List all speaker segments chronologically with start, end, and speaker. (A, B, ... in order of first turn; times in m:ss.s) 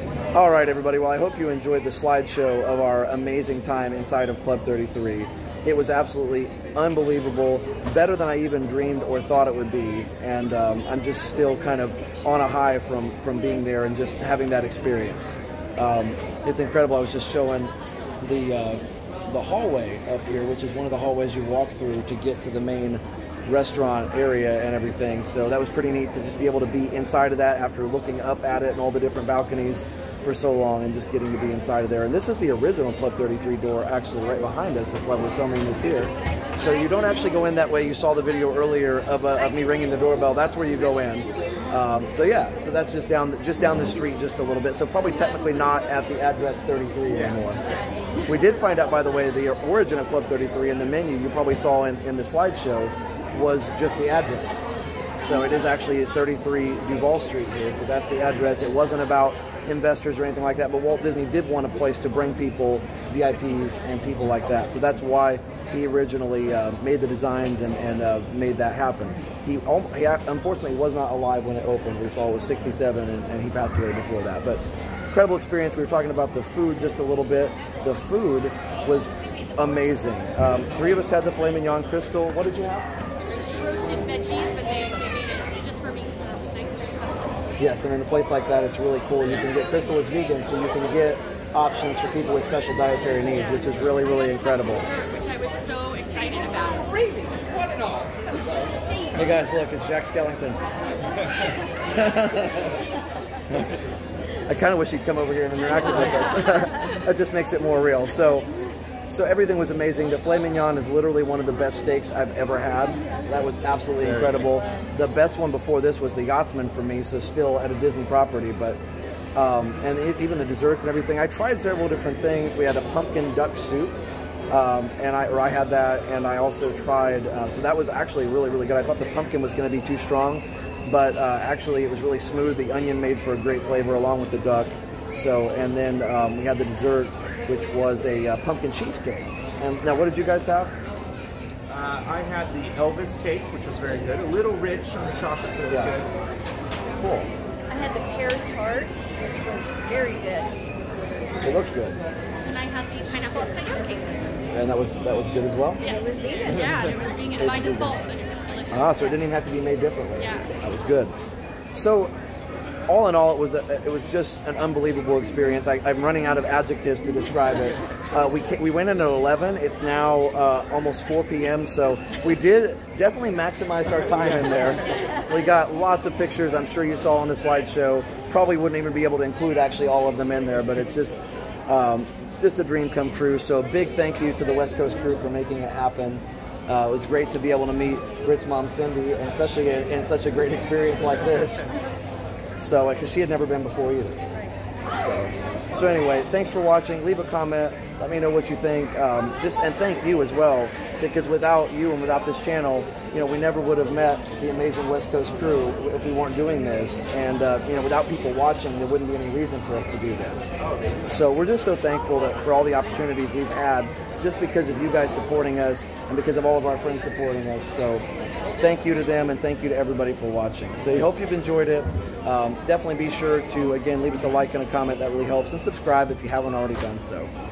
0:00.3-0:47.6 A
0:48.3-0:54.6 A
0:55.2-1:22.9 A
1:23.3-1:27.5 B
1:27.6-1:34.9 A
1:34.9-1:37.0 B
1:39.1-1:40.6 A
1:41.9-1:42.7 A
1:44.4-1:48.5 A
1:49.1-1:58.8 A
1:59.4-2:04.0 A
2:04.5-2:20.8 A
2:21.7-2:26.1 C
2:25.7-2:25.9 A
2:27.0-2:27.3 A
2:27.7-2:30.6 D
2:31.4-2:32.0 A
2:32.4-2:34.3 B
2:34.5-2:35.8 A
2:35.8-2:36.7 D
2:35.8-2:39.0 B
2:37.4-2:37.9 A
2:38.7-2:41.1 A
2:41.7-2:42.1 A
2:42.9-3:11.6 A
3:12.6-3:14.2 A
3:14.8-3:30.5 A
3:31.1-3:38.0 A
3:38.6-3:47.3 A